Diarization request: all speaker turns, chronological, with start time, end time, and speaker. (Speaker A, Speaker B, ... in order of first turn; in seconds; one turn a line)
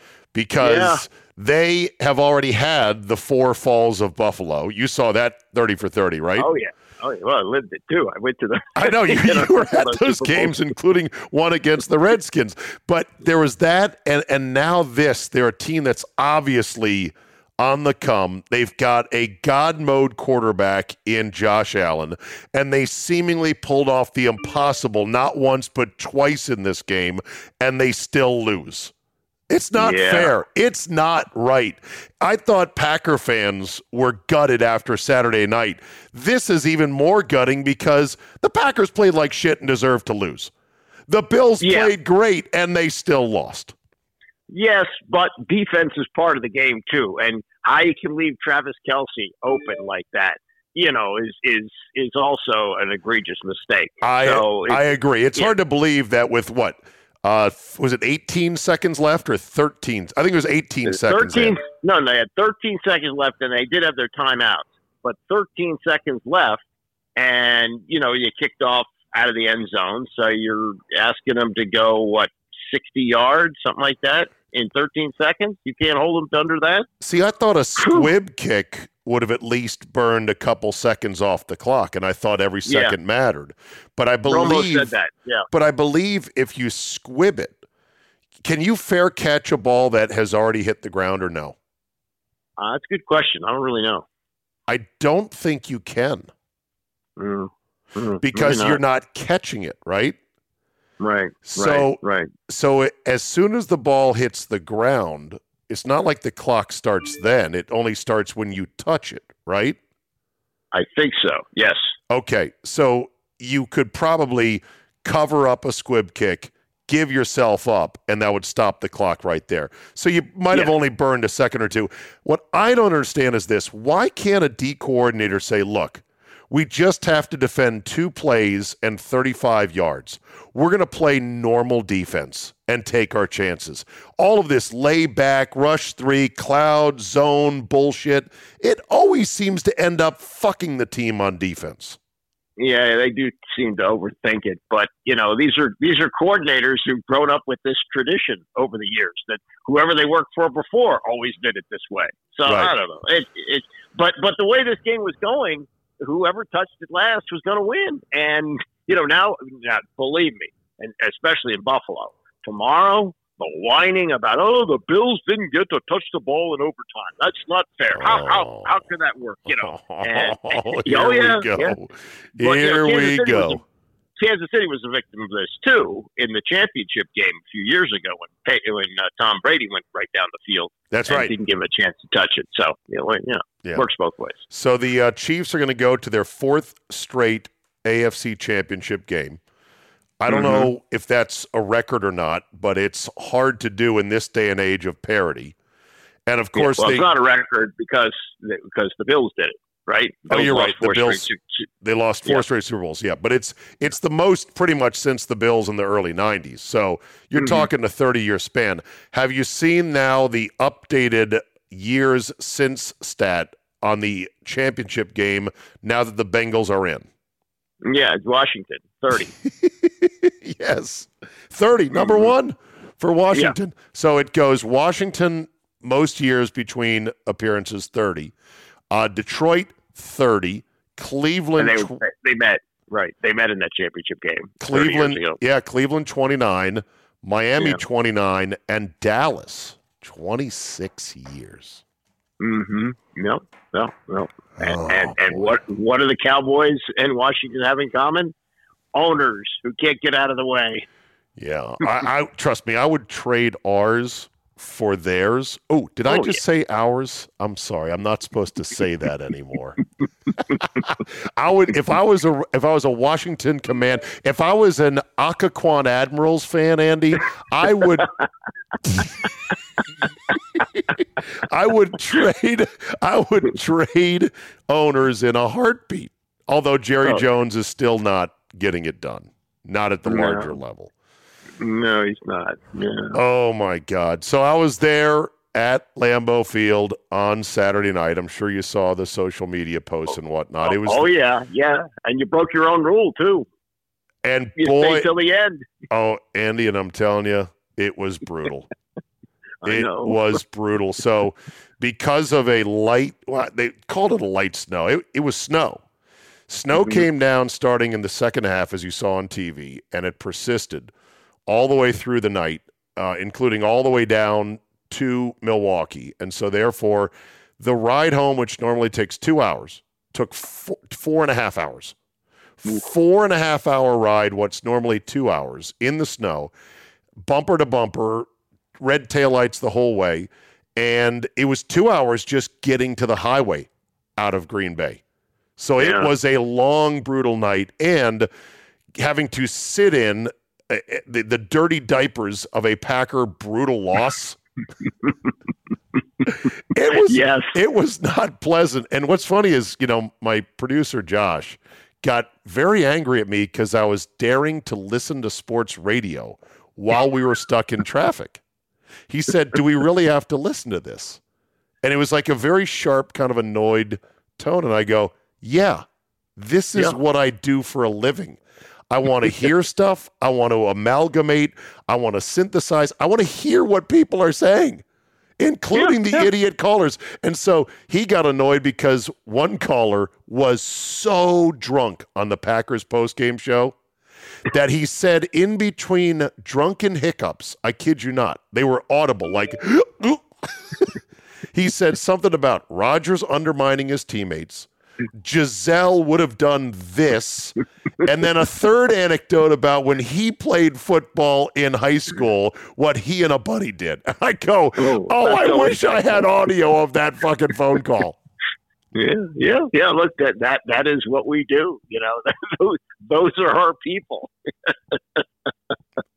Speaker A: 0.3-6.5
Speaker B: 0.6-1.0
Speaker B: 6.4-10.6
Speaker A: 8.8-28.9
Speaker A: 29.5-40.5
Speaker B: 29.8-30.3
Speaker A: 41.1-43.8
Speaker B: 41.6-41.9
Speaker B: 44.5-54.8
Speaker A: 54.0-61.6
Speaker B: 60.9-66.6
Speaker B: 67.2-76.9
Speaker A: 77.0-84.9
Speaker B: 77.8-78.1
Speaker B: 82.7-83.0
Speaker B: 84.3-85.5
Speaker A: 85.5-87.6
Speaker A: 88.4-91.5
Speaker B: 92.6-94.0
Speaker A: 94.7-96.3
Speaker B: 97.2-98.8
Speaker A: 98.2-100.2
Speaker B: 101.0-102.3
Speaker A: 101.5-109.8
Speaker B: 110.7-111.9
Speaker A: 112.1-142.0
Speaker B: 142.6-171.8
Speaker A: 152.5-152.7
Speaker A: 167.9-168.7
Speaker A: 169.5-173.6
Speaker B: 172.4-173.6
Speaker B: 174.2-184.4
Speaker A: 180.9-181.3
Speaker A: 184.5-189.4
Speaker A: 190.2-195.6
Speaker B: 190.3-190.7
Speaker A: 196.3-197.1
Speaker B: 196.6-201.4
Speaker A: 200.3-201.3
Speaker A: 201.8-217.1
Speaker B: 217.8-219.3
Speaker A: 219.4-228.3
Speaker B: 221.9-222.3
Speaker A: 228.9-232.0
Speaker B: 231.6-235.4
Speaker A: 234.6-241.8
Speaker B: 242.4-248.3
Speaker A: 244.6-245.6
Speaker B: 248.9-250.9
Speaker A: 251.4-259.8
Speaker B: 256.1-256.4
Speaker A: 260.6-268.1
Speaker A: 268.9-269.1
Speaker A: 270.6-280.9
Speaker B: 280.1-280.5
Speaker B: 281.6-283.1
Speaker A: 283.1-291.1
Speaker B: 290.6-293.5
Speaker A: 294.2-295.1
Speaker B: 294.6-295.7
Speaker A: 295.9-298.7
Speaker B: 299.6-300.3
Speaker A: 299.7-305.8
Speaker A: 306.5-310.9
Speaker A: 311.5-322.0
Speaker A: 322.6-326.5
Speaker A: 327.2-328.3
Speaker A: 328.8-335.0
Speaker A: 335.6-338.3
Speaker B: 335.8-336.1
Speaker A: 339.0-344.4
Speaker A: 346.3-358.4
Speaker B: 346.9-347.6
Speaker A: 359.1-361.2
Speaker A: 361.8-365.9
Speaker A: 366.4-374.8
Speaker A: 375.4-383.8
Speaker B: 375.8-376.3
Speaker A: 384.5-391.0
Speaker A: 391.5-408.2
Speaker B: 404.8-406.3
Speaker B: 408.9-415.2